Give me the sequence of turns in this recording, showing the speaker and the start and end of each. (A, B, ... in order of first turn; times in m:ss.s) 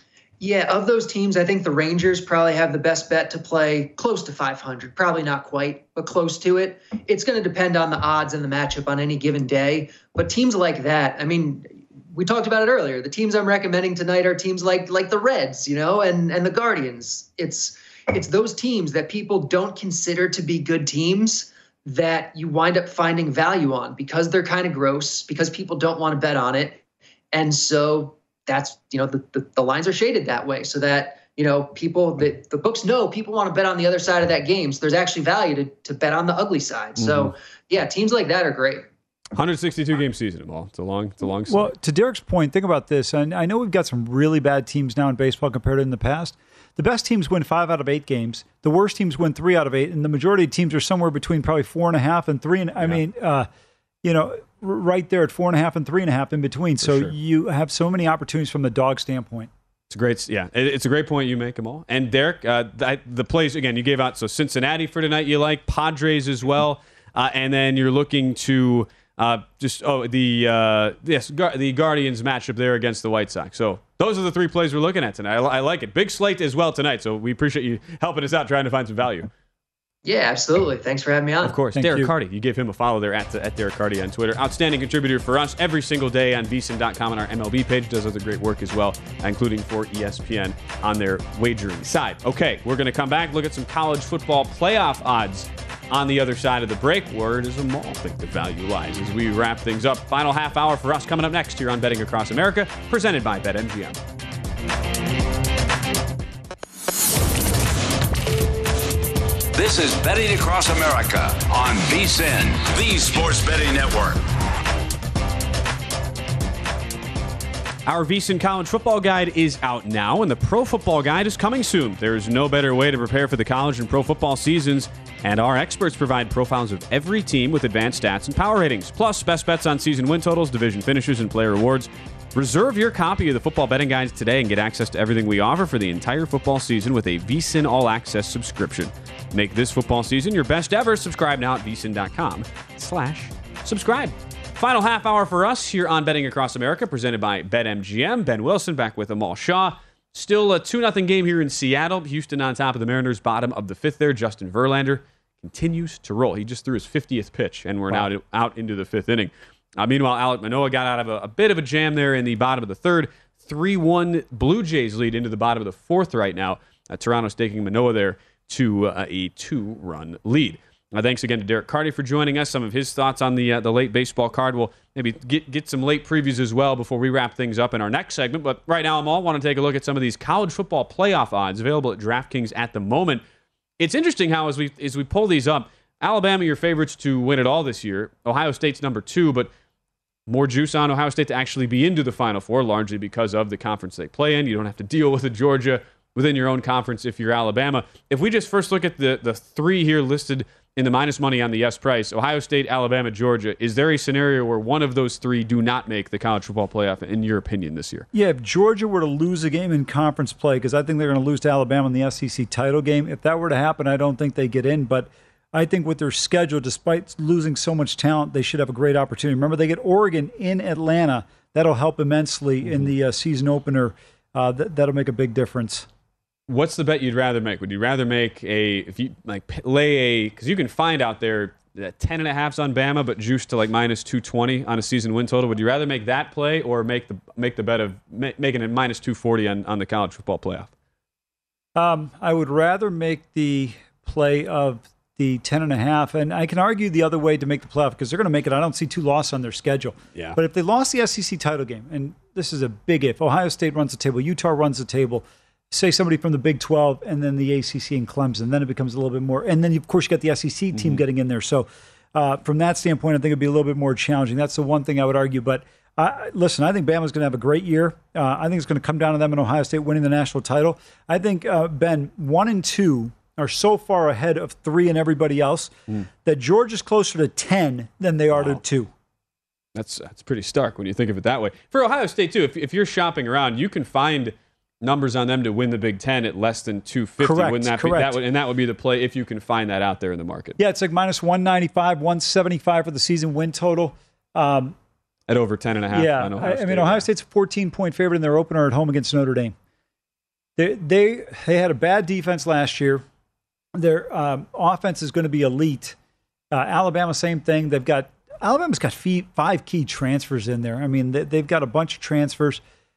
0:00.4-0:26.8 A
0:27.3-0:38.8 A
0:37.0-0:37.3 B
0:39.4-0:41.7 B
0:41.5-0:53.5 C
0:54.0-0:59.5 C
0:56.8-0:57.1 B
0:59.9-1:19.3 B
1:20.0-1:21.6 A
1:21.4-1:44.0 B
1:21.7-1:22.1 C
1:49.5-1:54.2 D
1:57.8-3:03.2 B
3:03.8-3:09.5 B
3:10.3-3:28.1 B
3:28.1-3:45.9 C
3:42.6-3:42.9 B
3:46.5-4:00.7 B
4:01.8-4:35.7 C
4:20.7-4:21.0 B
4:36.2-4:38.9 C
4:38.3-4:38.6 B
4:39.7-4:50.6 B
4:47.2-4:48.2 C
4:50.6-4:54.8 C
4:55.3-4:57.0 B
4:55.9-4:59.5 C
5:00.6-5:03.0 C
5:03.7-5:06.0 C
5:06.5-5:12.6 C